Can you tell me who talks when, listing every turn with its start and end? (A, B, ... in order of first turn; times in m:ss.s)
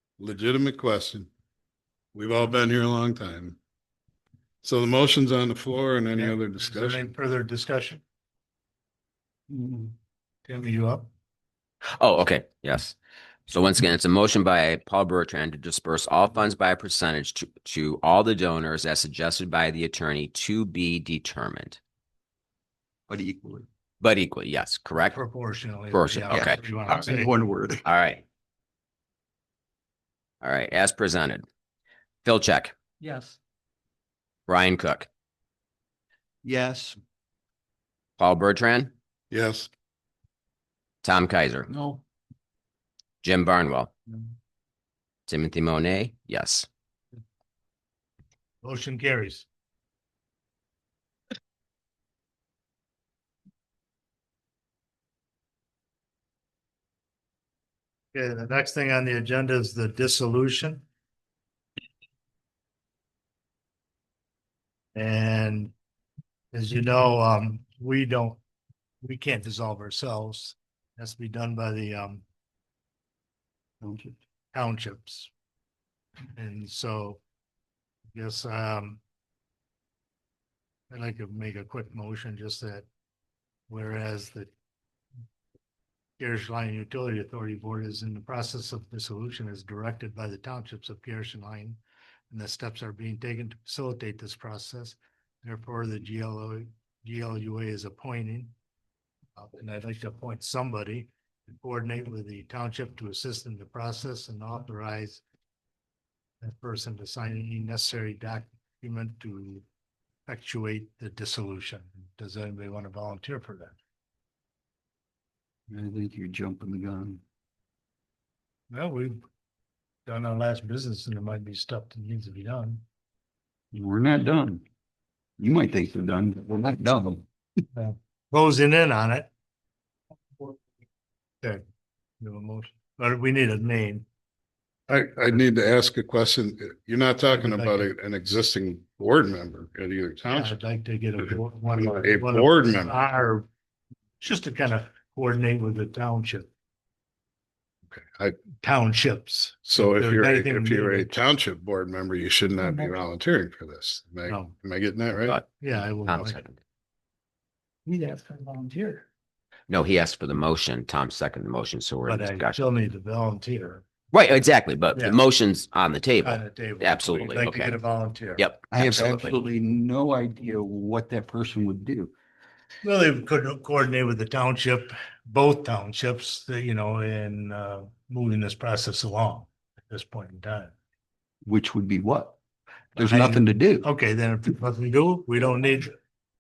0:00.2-0:01.3 A
0:02.1-0:03.6 A
0:04.6-0:07.0 A
0:06.2-0:08.0 B
0:09.5-0:09.9 C
0:10.5-0:11.1 B
0:12.0-0:13.0 D
0:13.5-0:21.8 D
0:23.1-0:23.7 C
0:24.0-0:25.2 D
0:25.0-0:27.3 B
0:25.9-0:26.6 D
0:26.3-0:27.8 C
0:27.8-0:28.2 D
0:30.4-0:31.5 D
0:32.2-0:32.7 D
0:33.0-0:33.4 E
0:34.5-0:35.1 D
0:36.4-0:37.0 C
0:38.2-0:38.9 D
0:39.3-0:39.7 A
0:41.0-0:41.7 D
0:41.7-0:42.0 E
0:43.2-0:43.9 D
0:45.3-0:46.7 D
0:48.6-0:49.4 B
0:58.1-1:00.8 B
1:05.0-1:05.7 B
1:06.5-1:08.4 B
1:09.0-1:12.2 B
1:13.8-1:14.2 C
1:14.5-1:15.3 B
1:16.4-1:17.2 B
1:18.2-1:19.0 B
1:20.9-1:22.9 B
1:23.7-1:24.5 B
1:26.2-1:31.8 B
1:32.3-1:38.5 B
1:39.4-1:45.2 B
1:46.4-1:49.6 B
1:50.3-1:53.8 B
1:55.7-1:57.2 C
1:58.7-1:59.2 B
2:00.1-2:02.8 B
2:03.7-2:04.6 C
2:05.4-2:07.2 C
2:07.8-2:09.3 B
2:12.2-2:14.1 B
2:14.9-2:20.6 A
2:17.3-2:17.8 B
2:20.3-2:23.5 B
2:21.8-2:22.9 A
2:24.2-2:26.5 B
2:27.9-2:28.4 A
2:28.6-2:31.2 B
2:29.7-2:35.4 A
2:32.6-2:32.9 E
2:34.3-2:34.5 B
2:35.6-2:36.4 B
2:36.0-2:36.6 D
2:37.9-2:39.0 E
2:39.7-2:42.6 D
2:42.1-2:43.8 B
2:44.1-2:47.8 D
2:46.2-2:48.4 B
2:48.4-2:49.4 D
2:48.7-2:52.1 C
2:52.8-3:00.7 B
3:01.5-3:02.4 C
3:03.0-3:03.9 C
3:03.0-3:05.9 B